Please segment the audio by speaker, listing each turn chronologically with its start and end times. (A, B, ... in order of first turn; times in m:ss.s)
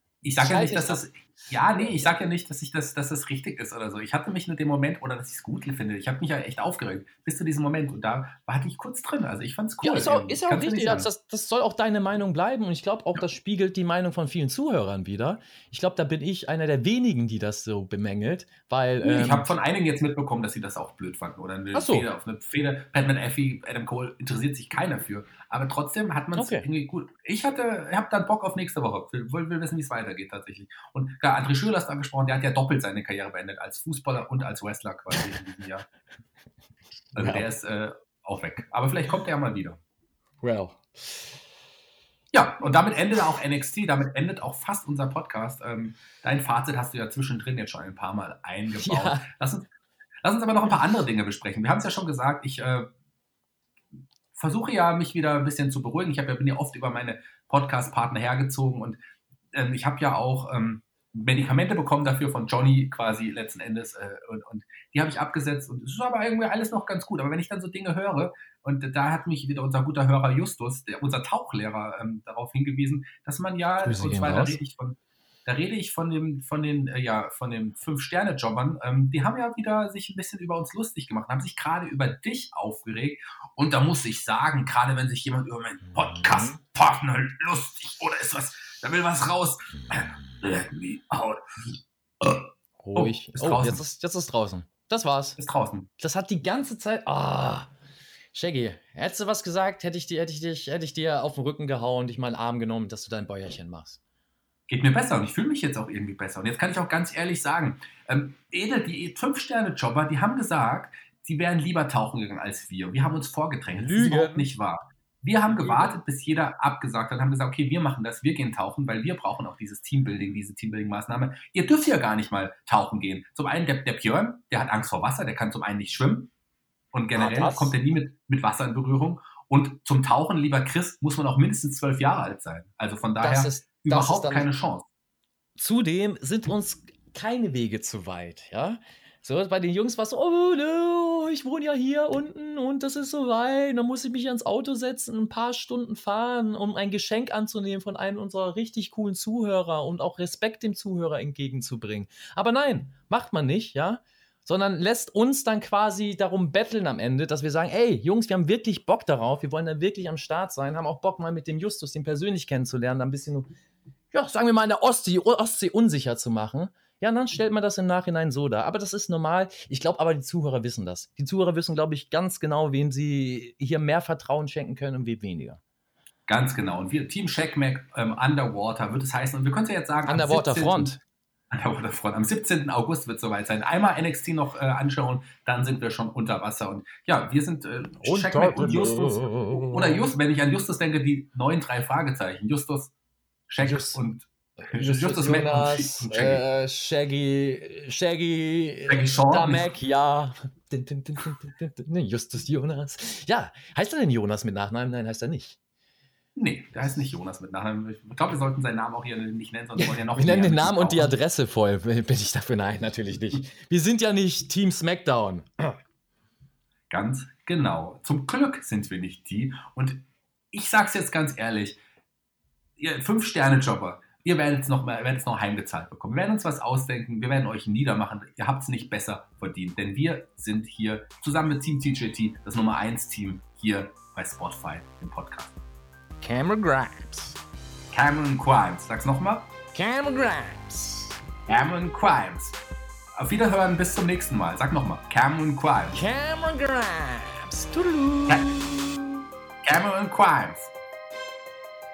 0:00.2-0:11.1 A
0:00.4-0:01.1 B
0:09.8-0:19.5 B
0:19.0-0:35.9 A
0:21.7-0:22.1 B
0:26.4-0:26.7 B
0:37.1-0:39.8 A
0:37.2-0:37.5 B
0:40.4-0:41.2 B
0:42.3-0:49.7 A
0:48.8-0:49.3 B
0:50.2-0:52.9 A
0:54.3-0:59.0 A
0:59.5-1:33.8 A
1:13.8-1:14.6 B
1:26.2-1:26.5 B
1:32.8-1:35.4 B
1:35.4-1:35.9 A
1:36.0-1:37.7 B
1:38.3-1:44.0 B
1:44.7-2:06.3 A
1:53.8-1:54.5 B
1:55.6-1:55.9 B
2:06.9-2:14.9 A
2:07.1-2:07.7 B
2:13.2-2:14.5 B
2:15.6-2:43.5 B
2:44.1-2:55.6 B
2:56.3-3:01.0 A
3:00.0-3:01.0 B
3:01.5-3:12.9 A
3:08.0-3:10.1 B
3:13.5-3:16.4 A
3:13.6-3:14.0 B
3:14.6-3:25.6 B
3:18.9-3:19.7 A
3:26.4-3:31.1 A
3:29.8-3:35.8 B
3:36.9-3:41.8 A
3:42.8-3:55.6 A
3:56.2-3:57.4 B
3:57.9-3:59.5 A
3:59.7-4:01.2 B
4:01.5-4:02.6 A
4:03.2-4:06.0 A
4:05.9-4:09.2 B
4:09.6-4:10.7 A